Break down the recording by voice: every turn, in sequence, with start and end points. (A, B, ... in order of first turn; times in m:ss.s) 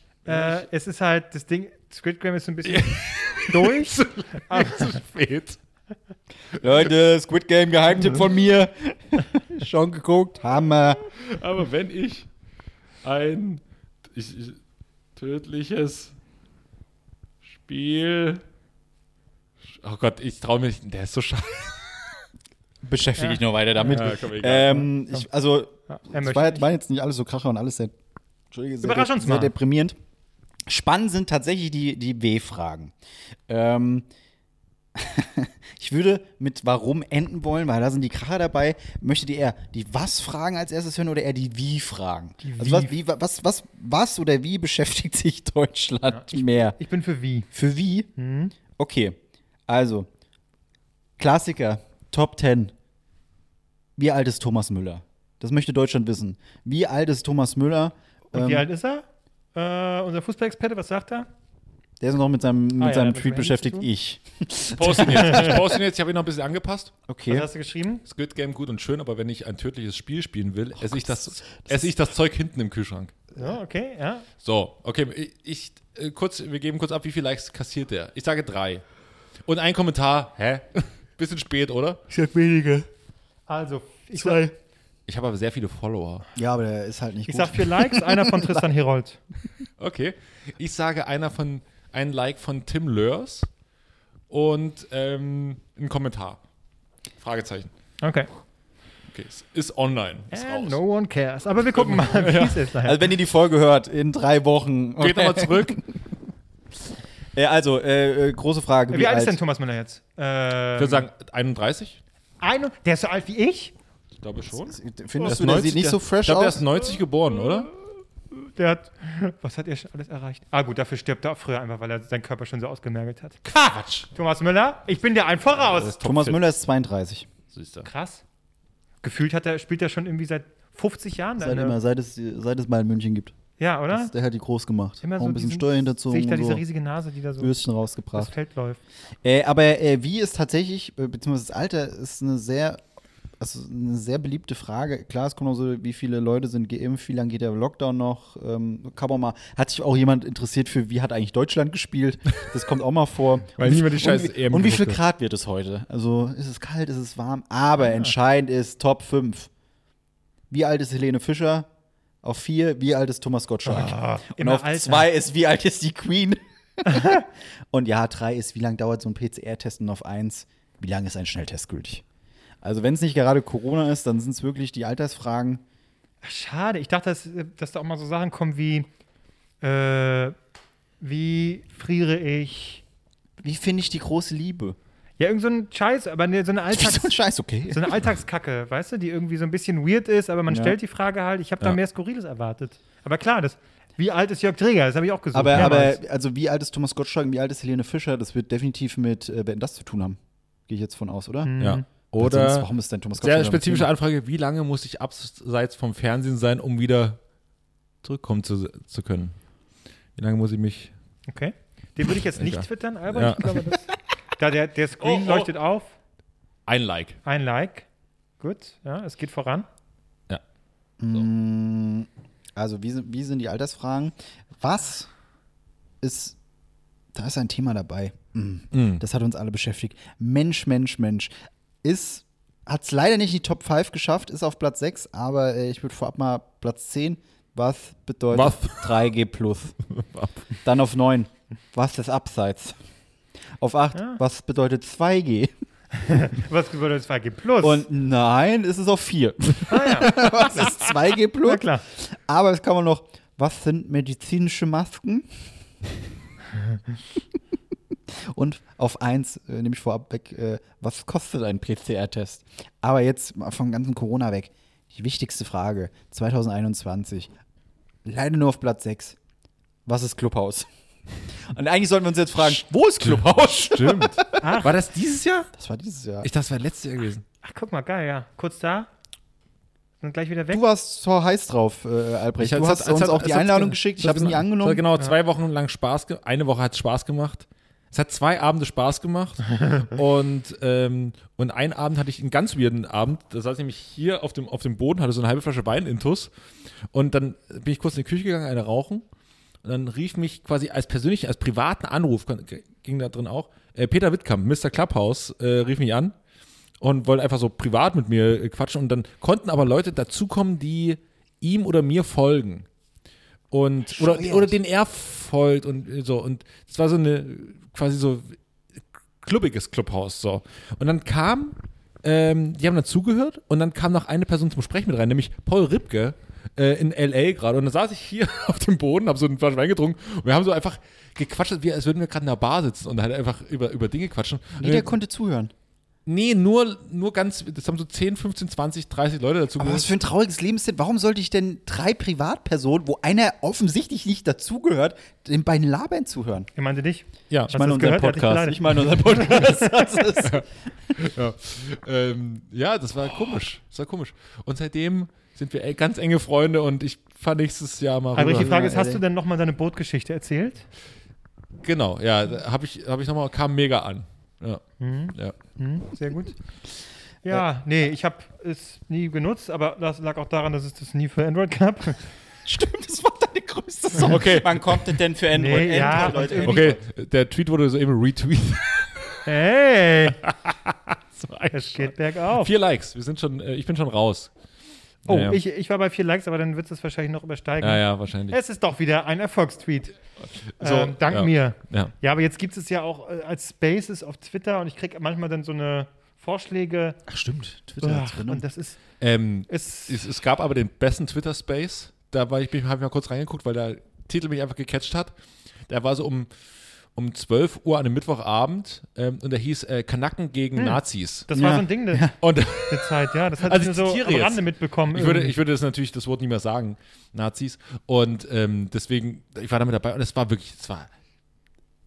0:00.3-0:04.0 A
0:02.6-0:05.6 B
0:04.5-0:04.8 A
0:06.5-0:11.1 C
0:11.1-0:12.3 B
0:13.0-0:13.6 B
0:14.1-0:14.6 B
0:15.2-0:16.2 B
0:17.4-0:18.4 B
0:19.8-0:22.2 B
0:22.8-0:27.9 C
0:23.2-0:24.1 A
0:23.8-0:24.9 B
0:25.9-0:26.7 A
0:28.5-0:30.0 C
0:28.8-0:29.5 A
0:30.7-0:32.9 C
0:33.5-0:34.1 C
0:35.0-0:46.8 C
0:42.4-0:43.0 A
0:46.1-0:47.5 A
0:47.5-0:48.1 C
0:48.2-0:48.5 A
0:48.8-0:50.1 C
0:51.2-0:52.7 C
0:54.0-0:58.7 C
0:58.3-1:01.3 A
1:02.0-1:05.8 C
1:02.8-1:03.9 A
1:04.7-1:06.9 B
1:05.1-1:05.5 A
1:07.1-1:07.5 C
1:07.3-1:08.0 A
1:08.0-1:13.2 B
1:10.8-1:11.9 C
1:13.4-1:14.3 A
1:14.4-1:18.8 B
1:19.5-1:22.0 B
1:22.1-1:22.9 C
1:23.5-1:24.4 A
1:24.1-1:24.6 C
1:25.1-1:26.2 B
1:26.4-1:28.6 C
1:27.3-1:29.2 A
1:29.8-1:33.5 B
1:34.3-1:36.4 B
1:37.2-1:37.7 B
1:38.0-1:38.3 A
1:39.1-1:40.8 B
1:40.3-1:43.0 A
1:41.8-1:42.7 B
1:42.8-1:45.8 C
1:45.0-1:45.9 B
1:47.4-1:49.4 C
1:48.9-1:51.1 A
1:50.8-1:52.0 B
1:52.4-1:53.7 A
1:54.2-1:57.7 B
1:54.7-1:56.7 C
1:58.6-2:03.4 A
2:03.4-2:04.1 B
2:04.1-2:06.0 A
2:05.6-2:06.4 B
2:06.0-2:07.3 C
2:07.5-2:07.9 B
2:07.8-2:08.2 A
2:09.0-2:11.8 A
2:11.4-2:13.3 C
2:13.6-2:14.1 A
2:13.9-2:16.6 C
2:15.0-2:17.5 A
2:17.4-2:18.3 C
2:18.1-2:18.8 A
2:19.2-2:22.8 C
2:23.4-2:39.5 C
2:33.6-2:35.0 B
2:40.5-2:41.7 C
2:42.2-2:52.0 C
2:43.6-2:45.1 A
2:46.8-2:47.2 A
2:52.6-2:55.6 C
2:56.2-2:58.9 A
2:59.6-3:00.4 A
3:01.0-3:02.8 A
3:03.4-3:04.8 C
3:05.2-3:16.0 A
3:06.7-3:08.1 C
3:10.5-3:10.8 C
3:15.3-3:21.6 C
3:21.4-3:21.8 A
3:21.6-3:22.7 B
3:22.2-3:23.9 C
3:23.2-3:27.2 B
3:28.0-3:29.4 B
3:30.2-3:30.9 B
3:31.3-3:35.9 A
3:32.3-3:33.6 B
3:35.0-3:35.5 B
3:36.7-3:37.2 B
3:37.2-3:37.9 A
3:38.4-3:39.7 A
3:41.0-3:45.1 C
3:46.0-3:46.4 C
3:47.1-3:51.3 C
3:48.7-3:49.0 B
3:51.8-3:59.8 C
3:58.3-3:59.0 B
4:00.0-4:00.4 B
4:00.6-4:02.8 C
4:03.6-4:05.5 C
4:04.0-4:04.2 A
4:06.0-4:07.8 A
4:07.6-4:15.5 C
4:09.7-4:11.8 A
4:18.1-4:27.3 C
4:28.0-4:29.2 C
4:29.9-4:30.7 C
4:31.5-4:34.4 C
4:32.4-4:35.5 B
4:34.4-4:34.7 A
4:35.6-4:36.3 C
4:36.2-4:37.2 B
4:37.4-4:38.9 A
4:40.0-4:40.6 A
4:40.5-4:44.8 C
4:42.4-4:56.3 B
4:56.9-4:59.0 B
4:59.6-5:06.1 B
5:06.8-5:12.7 B
5:13.5-5:18.4 B
5:13.9-5:14.6 C
5:19.2-5:34.9 B
5:34.6-5:35.5 C
5:36.1-5:39.9 B
5:39.6-5:46.5 C
5:46.6-5:50.1 A
5:47.5-5:50.4 C
5:50.2-5:58.8 B
5:58.2-6:00.6 A
5:58.3-5:59.0 C
6:01.6-6:04.6 B
6:04.8-6:06.4 A
6:07.2-6:12.0 A
6:12.4-6:16.8 C
6:14.0-6:15.0 B
6:15.3-6:16.6 A
6:16.0-6:19.2 B
6:19.3-6:20.2 A
6:20.2-6:24.3 B
6:21.5-6:22.5 A
6:25.0-6:25.4 B
6:25.1-6:30.0 A
6:27.6-6:28.4 B
6:30.6-6:31.9 B
6:30.6-6:37.0 A
6:37.1-6:38.4 C
6:37.8-6:38.8 A
6:39.0-6:45.1 B
6:39.5-6:40.0 A
6:45.7-6:46.3 B
6:47.0-6:51.3 B
6:50.6-6:52.1 A
6:51.3-6:52.2 C
6:52.2-7:00.9 B
6:52.7-6:55.4 A